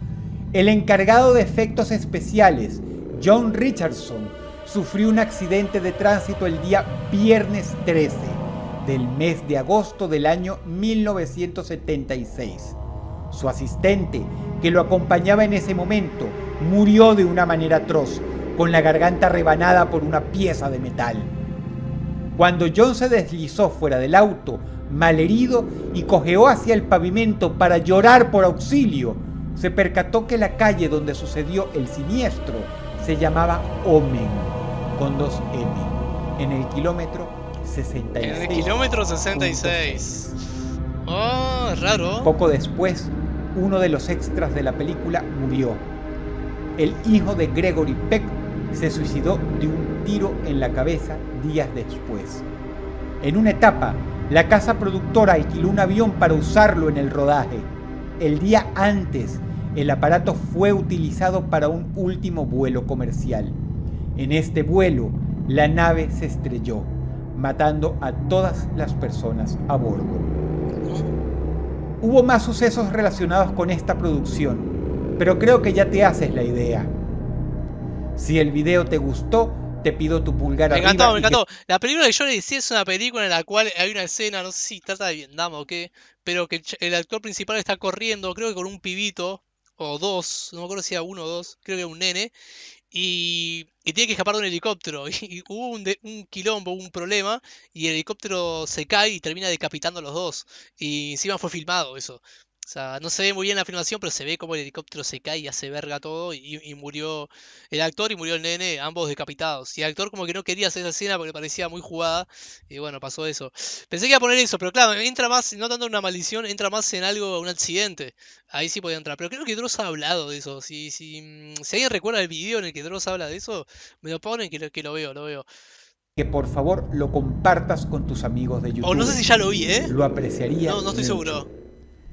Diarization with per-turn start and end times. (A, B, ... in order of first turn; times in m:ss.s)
0:00.5-0:12.8 A
0:13.3-0:21.3 A
0:22.4-0:40.3 A
0:38.2-0:40.3 B
0:41.0-0:42.3 B
0:42.2-0:45.9 A
0:46.8-0:52.4 A
0:53.2-1:03.6 A
1:04.1-1:10.3 A
1:10.8-1:11.1 B
1:12.0-1:16.9 A
1:18.2-1:21.4 A
1:20.7-1:32.3 B
1:32.9-2:05.4 B
2:06.2-2:09.2 A
2:08.8-2:09.9 B
2:09.8-2:11.4 A
2:10.6-2:11.5 B